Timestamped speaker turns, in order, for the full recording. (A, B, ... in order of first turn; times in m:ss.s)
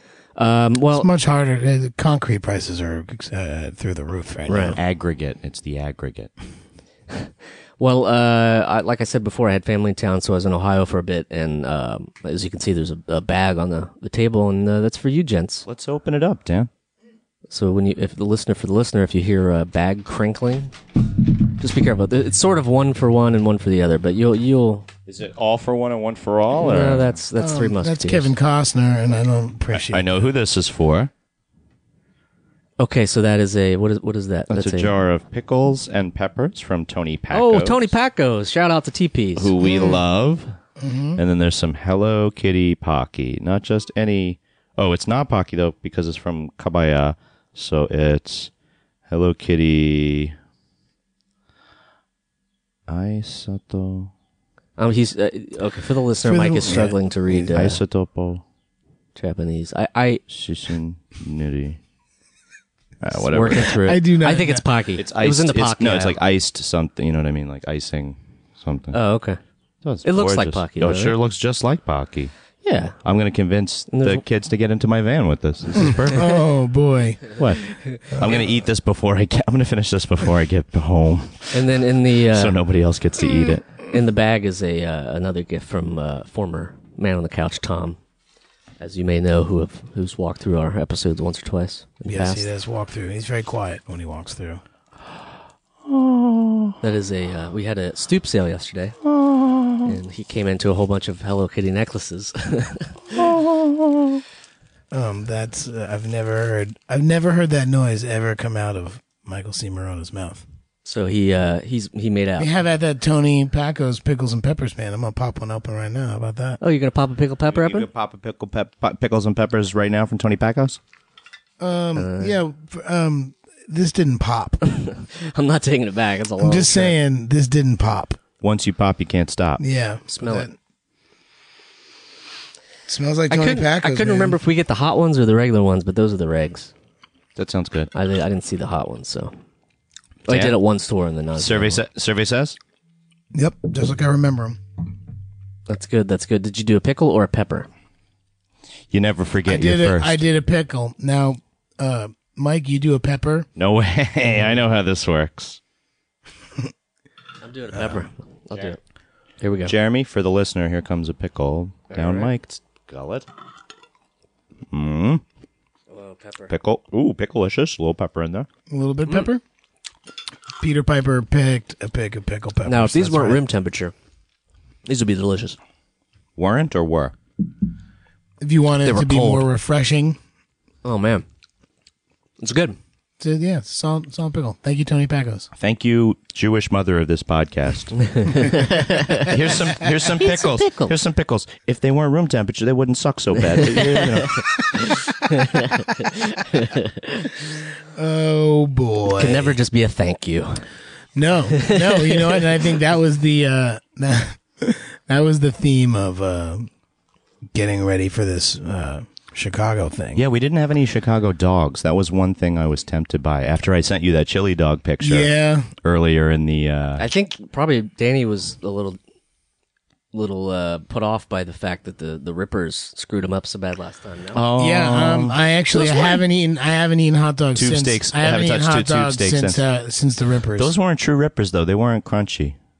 0:00.4-0:01.1 A
0:00.9-0:04.8 B
0:04.5-0:04.8 A
0:04.7-0:06.3 C
0:07.1-0:15.6 A
0:15.6-0:16.7 C
0:17.5-0:24.9 A
0:25.0-0:27.1 C
0:26.6-0:28.3 A
0:27.4-0:30.2 B
0:29.7-0:31.1 C
0:32.8-0:34.9 A
0:34.5-0:37.9 C
0:37.3-0:39.5 A
0:39.4-0:40.5 C
0:39.6-0:40.0 B
0:40.8-0:41.2 B
0:41.2-0:48.5 C
0:49.1-0:50.3 C
0:52.9-0:54.1 C
0:54.8-0:57.8 A
0:56.2-0:57.4 B
0:57.5-0:58.4 C
0:59.1-1:00.2 A
1:00.3-1:01.8 C
1:03.0-1:03.8 C
1:03.1-1:06.2 A
1:03.8-1:04.6 B
1:05.0-1:09.0 C
1:08.9-1:09.4 A
1:09.8-1:12.3 C
1:10.0-1:11.2 A
1:12.6-1:12.9 A
1:13.0-1:16.4 C
1:13.9-1:14.2 A
1:15.8-1:17.4 B
1:17.4-1:21.7 C
1:21.5-1:22.6 A
1:22.3-1:23.6 C
1:23.9-1:28.0 A
1:28.8-1:32.5 A
1:32.0-1:34.6 B
1:35.9-1:36.8 C
1:36.8-1:39.0 A
1:39.0-1:39.9 C
1:39.8-1:43.0 A
1:43.1-1:44.2 C
1:44.9-1:50.4 B
1:50.8-1:52.5 A
1:52.4-1:56.6 B
1:56.6-1:57.9 A
1:57.5-2:00.8 C
2:01.6-2:04.6 B
2:01.9-2:02.4 A
2:04.6-2:07.0 A
2:06.4-2:08.2 B
2:08.4-2:09.6 C
2:09.6-2:10.5 B
2:10.1-2:10.5 A
2:12.9-2:14.4 B
2:13.3-2:16.7 A
2:17.4-2:17.9 C
2:17.9-2:19.3 A
2:20.3-2:20.6 C
2:20.3-2:21.8 A
2:21.4-2:22.6 C
2:23.3-2:24.6 B
2:25.7-2:27.7 A
2:28.9-2:30.2 C
2:29.4-2:33.5 B
2:33.6-2:35.6 C
2:37.4-2:38.8 A
2:39.4-2:39.7 A
2:39.6-2:43.3 C
2:41.9-2:42.3 A
2:44.7-2:45.2 C
2:45.9-2:46.5 A
2:46.5-2:48.5 C
2:48.7-2:49.4 B
2:50.6-2:53.4 B
2:52.6-2:53.9 A
2:54.8-2:55.6 A
2:56.4-2:57.1 C
2:58.4-3:00.2 B
2:58.8-2:59.4 A
3:00.8-3:01.2 A
3:02.4-3:02.8 A
3:03.2-3:05.5 B
3:05.6-3:08.3 C
3:08.2-3:09.3 A
3:09.1-3:14.5 C
3:10.0-3:10.9 A
3:13.5-3:14.4 A
3:15.2-3:17.3 A
3:17.9-3:19.6 B
3:19.1-3:20.6 A
3:21.1-3:26.7 B
3:21.6-3:22.4 A
3:27.5-3:30.2 B
3:30.1-3:37.0 C
3:35.0-3:35.7 B
3:37.0-3:39.0 A
3:40.1-3:44.4 A
3:44.3-3:46.2 C
3:44.6-3:50.7 B
3:47.5-3:49.6 C
3:50.6-3:52.6 C